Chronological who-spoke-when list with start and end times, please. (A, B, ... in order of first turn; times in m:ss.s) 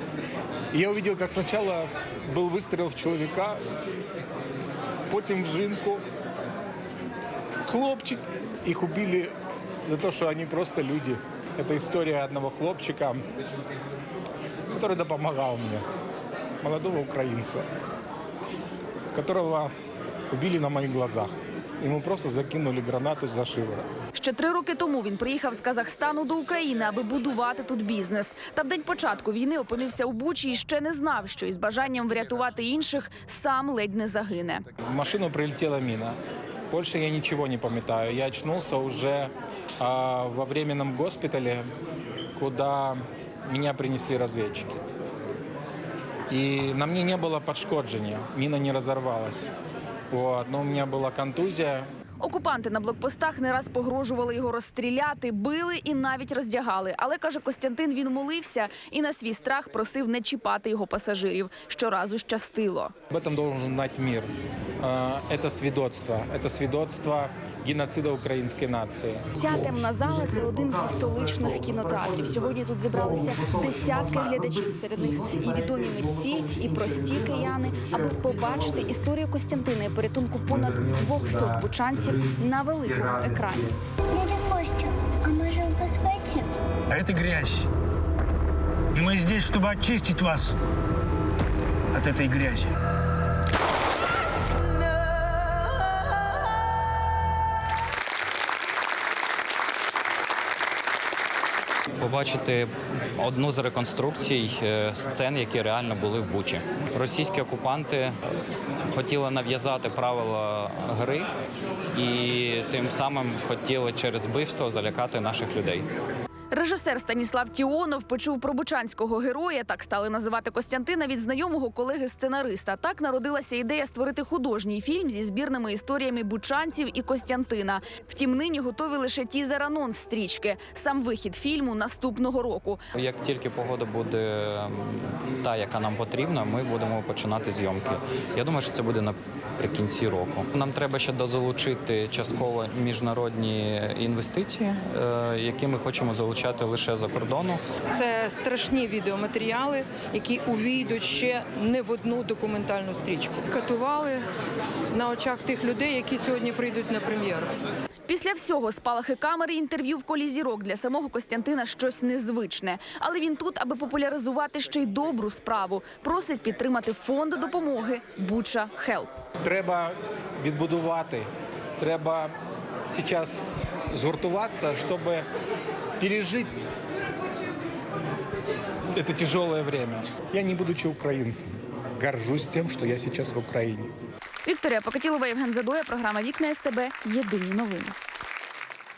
0:00.7-0:03.6 A
0:05.1-0:06.0 A
0:07.6-0:09.3 A
0:09.8-0:13.2 A
0:14.7-0:15.8 A
0:16.6-0:17.6 A
0:19.1-0:19.7 A
0:20.3-0:23.9 A
0:24.1-0:34.6 B
0:34.9-0:36.2 A
0:36.7-0:41.7 A
0:42.4-0:44.8 A
0:46.3-0:49.5 A
0:50.1-0:51.9 A
0:52.2-1:02.9 B
1:03.1-1:09.3 A
1:09.4-1:23.7 B
1:16.7-1:17.5 A
1:18.1-1:18.7 A
1:23.3-1:23.6 A
1:24.1-1:26.4 C
1:26.9-1:27.6 D
1:28.9-1:30.5 D
1:32.0-1:32.6 D
1:42.0-1:48.1 E
1:48.9-1:51.3 E
1:51.9-1:55.9 E
1:56.5-2:12.9 B
2:12.9-2:27.6 E
2:29.1-2:30.8 F
2:31.7-2:33.2 F
2:36.8-2:37.2 F
2:38.1-2:49.1 B
2:49.4-2:52.3 A
2:52.9-2:55.2 A
2:56.0-2:56.6 A
2:59.0-3:03.9 A
3:04.4-3:07.9 B